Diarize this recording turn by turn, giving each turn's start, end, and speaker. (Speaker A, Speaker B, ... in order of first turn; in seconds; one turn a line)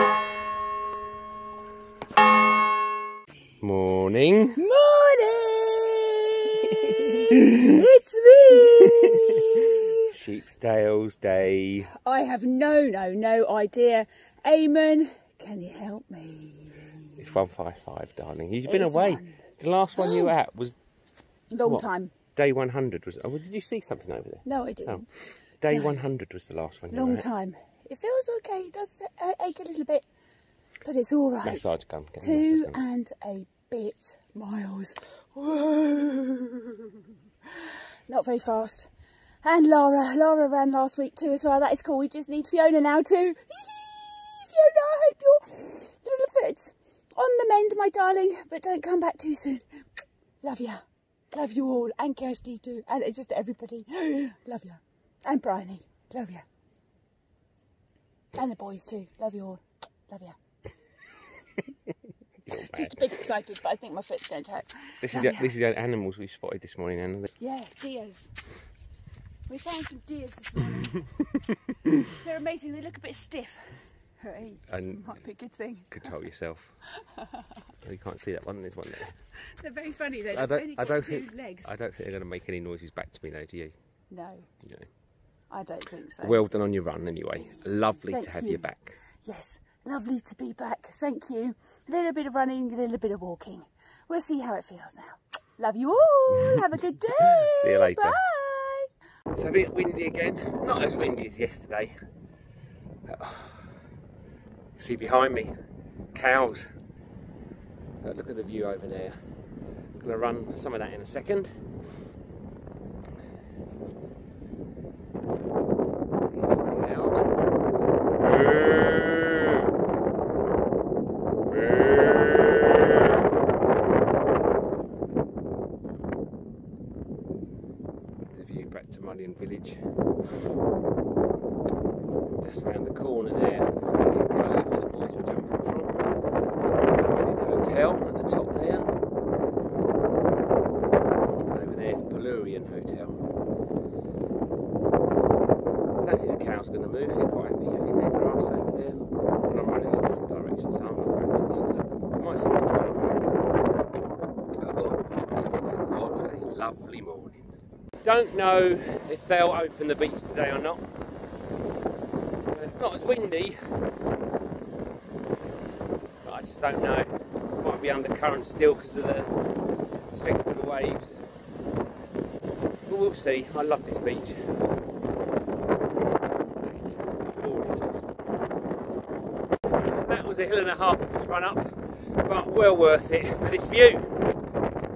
Speaker A: 3.6-4.6
Speaker B: 4.6-10.1
Speaker A: 6.6-7.8
Speaker A: 9.1-11.9
Speaker B: 12.0-17.2
Speaker A: 17.2-20.7
Speaker B: 18.6-19.4
Speaker B: 20.0-20.3
Speaker B: 21.5-22.1
Speaker A: 21.6-25.1
Speaker B: 24.4-25.1
Speaker A: 25.6-27.2
Speaker B: 25.7-26.0
Speaker B: 26.9-30.1
Speaker B: 30.8-37.1
Speaker A: 31.4-32.8
Speaker B: 37.6-38.9
Speaker B: 39.4-49.6
Speaker B: 50.4-56.4
Speaker B: 58.3-60.4
Speaker A: 62.5-63.3
Speaker B: 62.5-65.5
Speaker A: 65.0-67.3
Speaker B: 67.4-68.3
Speaker B: 69.5-71.0
Speaker B: 72.1-76.1
Speaker A: 74.7-75.2
Speaker A: 75.9-76.8
Speaker B: 77.2-77.4
Speaker A: 77.8-79.1
Speaker B: 79.6-81.7
Speaker A: 80.3-83.7
Speaker B: 84.1-84.5
Speaker A: 84.6-84.9
Speaker B: 85.5-86.4
Speaker A: 86.2-89.0
Speaker B: 88.0-98.9
Speaker A: 97.2-98.2
Speaker A: 99.3-101.9
Speaker A: 103.1-103.7
Speaker A: 104.8-105.5
Speaker A: 106.1-106.7
Speaker A: 108.0-109.1
Speaker A: 110.0-111.5
Speaker A: 116.3-117.3
Speaker A: 118.2-119.7
Speaker A: 121.5-123.2
Speaker A: 128.3-129.8
Speaker A: 132.4-135.9
Speaker A: 136.7-138.8
Speaker A: 141.5-143.2
Speaker A: 146.0-153.3
Speaker A: 154.6-157.5
Speaker A: 158.0-160.8
Speaker A: 162.5-163.6
Speaker A: 166.2-167.1
Speaker A: 167.6-169.3
Speaker A: 170.1-171.2
Speaker A: 172.9-174.4
Speaker A: 176.6-178.1
Speaker A: 179.8-181.7
Speaker A: 182.2-184.2